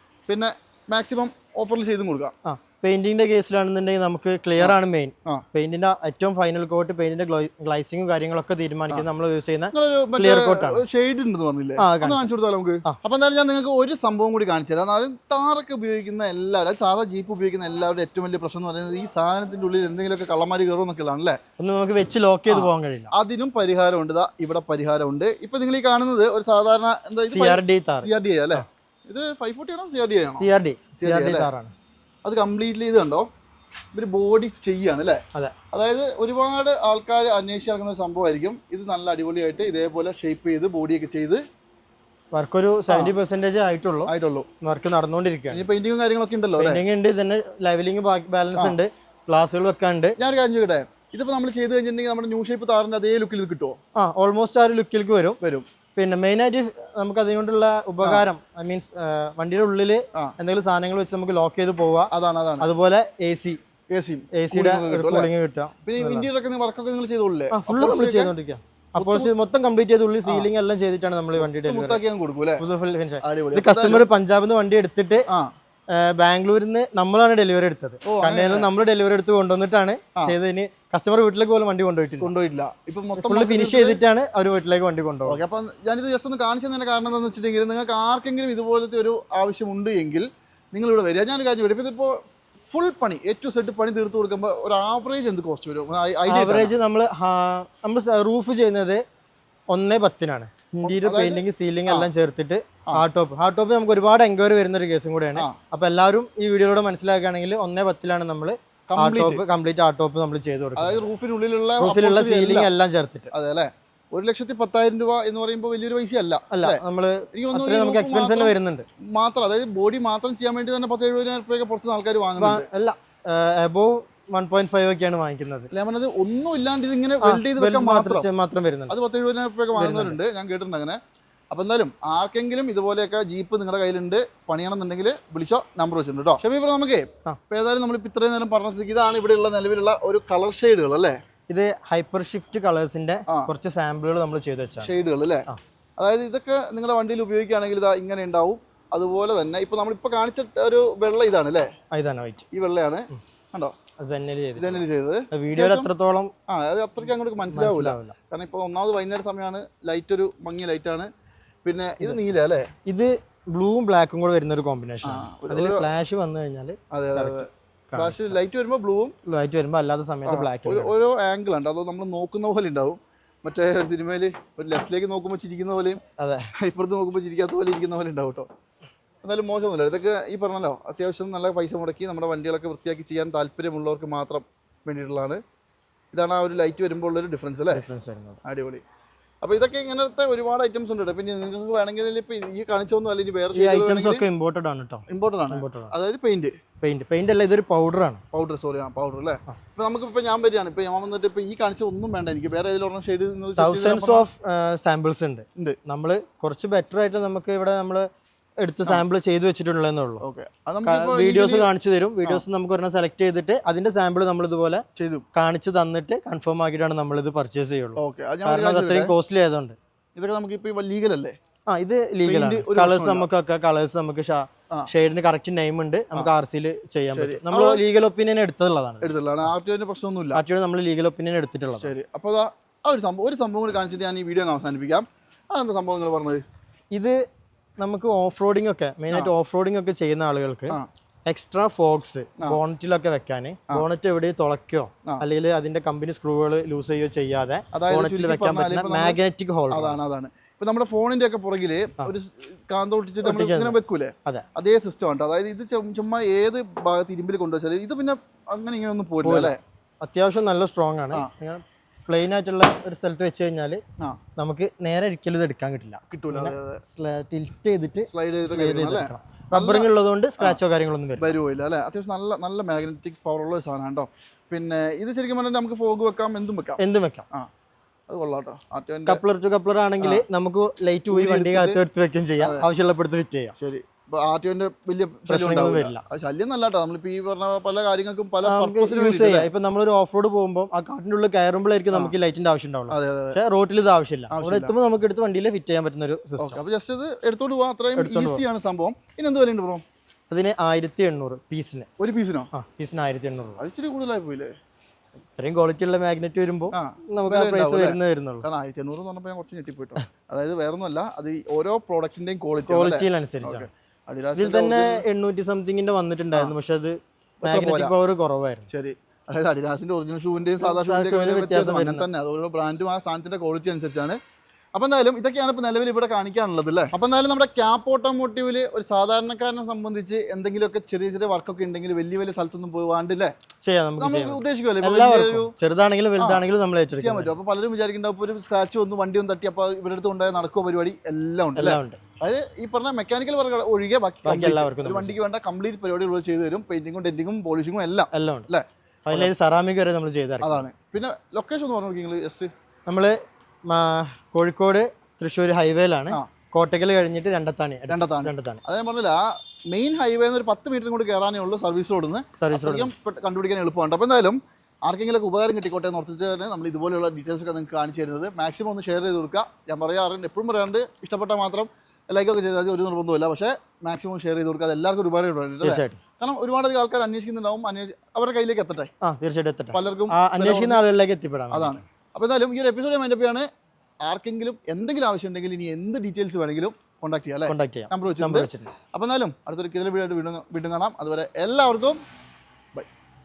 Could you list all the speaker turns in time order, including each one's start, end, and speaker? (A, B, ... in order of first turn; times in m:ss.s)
0:00.3-0:02.3 A
0:02.4-0:10.8 B
0:04.6-0:05.4 A
0:09.7-0:21.4 A
0:11.8-0:12.3 B
0:21.6-0:23.1 B
0:22.5-0:30.5 A
0:27.3-0:28.6 B
0:30.4-0:31.7 B
0:31.0-0:31.5 A
0:32.2-0:33.3 A
0:33.9-0:41.4 A
0:42.3-0:44.1 B
0:42.9-0:43.1 A
0:44.1-0:44.5 A
0:44.6-0:45.6 B
0:45.5-0:46.8 A
0:46.6-0:50.2 B
0:50.2-0:53.8 A
0:54.0-0:55.4 B
0:55.4-0:55.7 A
0:56.0-1:02.1 B
1:02.1-1:02.7 A
1:02.6-1:03.6 B
1:03.9-1:05.3 A
1:04.3-1:06.3 B
1:05.8-1:08.3 A
1:07.5-1:12.0 B
1:09.0-1:09.3 A
1:11.4-1:12.6 A
1:12.6-1:15.3 B
1:13.2-1:14.1 A
1:15.9-1:22.3 B
1:18.0-1:18.7 A
1:22.2-1:24.0 A
1:23.2-1:25.4 B
1:25.2-1:32.2 A
1:32.7-1:36.7 A
1:36.3-1:39.0 B
1:39.7-1:51.1 B
1:40.8-1:42.1 A
1:48.9-1:49.4 A
1:50.8-1:52.7 A
1:51.8-1:53.3 B
1:53.3-1:56.8 A
1:56.5-1:58.9 B
1:57.3-1:58.5 A
1:59.0-2:02.7 A
2:02.4-2:05.7 B
2:05.7-2:08.3 A
2:07.2-2:09.0 B
2:08.9-2:11.0 A
2:09.7-2:10.2 B
2:11.5-2:21.2 A
2:21.5-2:24.9 B
2:24.8-2:25.4 A
2:26.0-2:31.7 A
2:31.9-2:32.5 B
2:32.5-2:33.8 A
2:34.0-2:36.3 B
2:34.6-2:35.9 A
2:36.5-2:41.1 A
2:37.5-2:38.2 B
2:41.6-2:42.7 A
2:42.0-2:42.3 B
2:42.9-2:48.3 B
2:45.0-2:45.9 A
2:46.9-2:49.2 A
2:49.3-2:50.9 B
2:50.3-2:56.0 A
2:56.2-2:56.5 B
2:56.6-2:58.5 A
2:59.2-3:05.4 A
3:06.1-3:07.8 A
3:07.7-3:08.4 B
3:08.4-3:08.8 A
3:09.4-3:14.2 A
3:13.5-3:15.9 B
3:15.1-3:16.6 A
3:16.8-3:18.2 B
3:18.3-3:24.3 A
3:23.6-3:28.1 B
3:28.6-3:30.2 B
3:30.2-3:31.7 A
3:30.8-3:34.8 B
3:35.0-3:35.2 A
3:35.4-3:39.8 B
3:38.0-3:39.1 A
3:40.2-3:41.4 A
3:41.7-3:49.2 B
3:42.2-3:43.3 A
3:47.1-3:47.8 A
3:49.0-3:50.4 A
3:50.3-3:51.9 B
3:51.8-3:56.4 A
3:56.9-3:57.2 B
3:57.8-4:10.0 B
4:07.7-4:09.2 A
4:09.7-4:19.6 A
4:13.2-4:14.4 B
4:19.2-4:23.8 B
4:24.4-4:31.4 B
4:26.1-4:26.8 A
4:28.1-4:30.6 A
4:31.2-4:36.8 A
4:36.8-4:37.3 B
4:38.1-4:39.2 A
4:39.1-4:43.6 B
4:41.1-4:41.8 A
4:43.6-4:49.5 A
4:45.3-4:46.0 B
4:48.4-4:56.6 B
4:52.9-4:53.4 A
4:54.3-4:54.8 A
4:56.4-4:59.8 A
4:58.0-4:58.4 B
5:00.3-5:01.9 B
5:02.0-5:02.5 A
5:02.5-5:03.6 B
5:03.6-5:04.5 A
5:05.4-5:08.4 B
5:06.7-5:15.0 A
5:12.7-5:13.7 B
5:14.4-5:18.7 B
5:17.4-5:17.9 A
5:18.7-5:24.2 A
5:20.6-5:22.1 B
5:24.8-5:33.3 A
5:33.6-5:37.4 B
5:34.0-5:35.5 A
5:36.2-5:36.4 A
5:37.0-5:49.3 A
5:41.6-5:42.0 B
5:44.2-5:45.2 B
5:48.1-5:48.5 B
5:49.1-5:50.7 B
5:50.4-5:52.5 A
5:52.9-5:58.6 B
5:57.9-6:18.9 A
6:02.4-6:02.9 B
6:15.6-6:16.0 B
6:19.0-6:21.8 B
6:19.7-6:20.8 A
6:21.5-6:23.5 A
6:24.1-6:32.0 A
6:27.5-6:28.7 B